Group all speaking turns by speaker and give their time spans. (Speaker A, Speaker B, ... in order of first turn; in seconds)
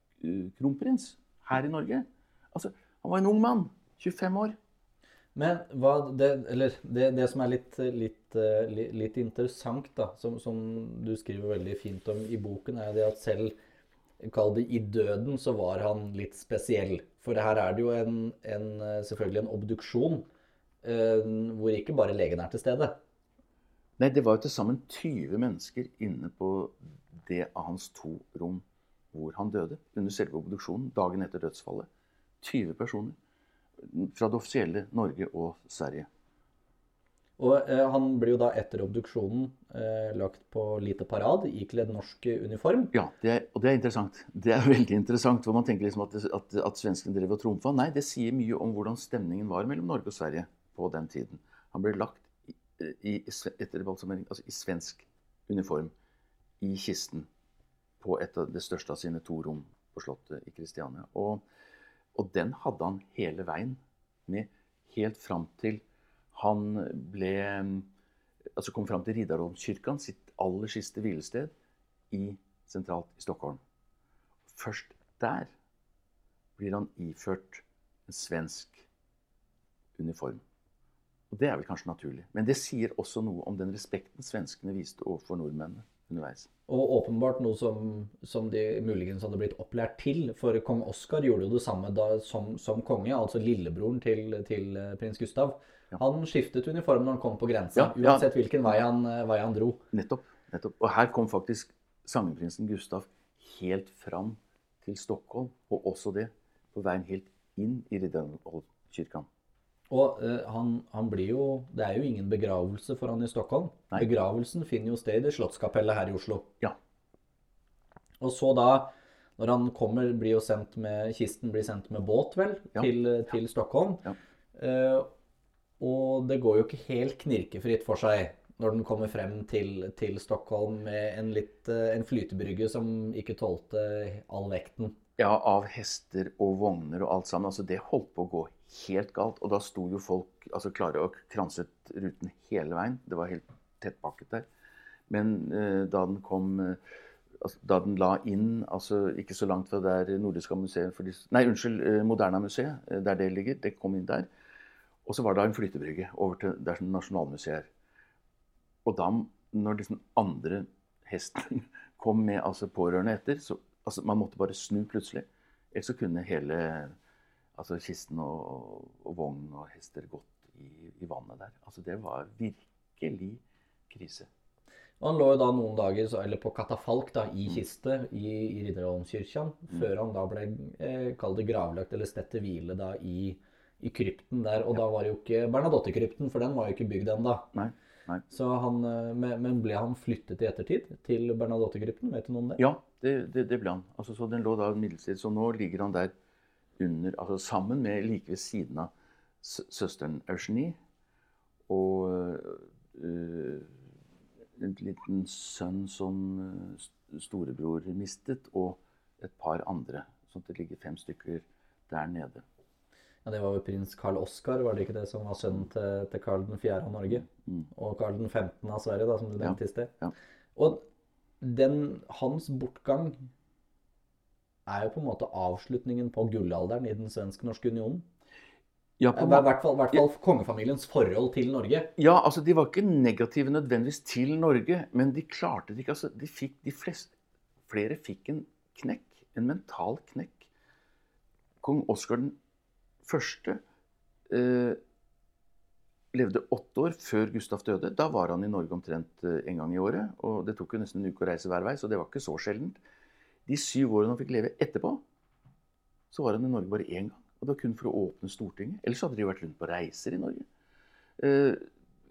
Speaker A: 0.2-4.6, 24.0-31.9, 32.4-33.2, 33.8-36.1, 42.9-55.9, 56.6-57.3, 58.0-61.4, 62.1-67.9, 68.6-71.5, 72.1-73.6, 74.5-75.5, 76.6-78.9, 80.0-80.4, 81.3-86.5, 97.8-98.2, 99.9-109.3, 135.2-144.5, 145.1-146.8, 147.4-154.3, 155.1-157.7, 158.8-166.9, 167.6-174.3, 187.5-188.2, 192.6-196.1, 196.8-198.9, 199.4-200.8, 201.7-203.7, 204.6-212.4, 219.4-220.1, 229.0-230.0, 232.0-237.1, 237.7-240.5, 241.6-242.4, 243.0-243.6, 244.3-244.8, 246.1-252.8, 253.5-255.0, 256.1-260.5, 261.2-261.6
Speaker B: 5.3-13.5, 14.2-20.3, 20.8-23.0, 37.4-42.9, 86.7-99.8, 109.9-116.5, 118.2-125.1, 125.8-135.0, 175.0-187.5, 188.3-192.6, 213.2-219.9, 220.6-220.8, 221.4-223.2, 224.7-228.1, 229.1-231.9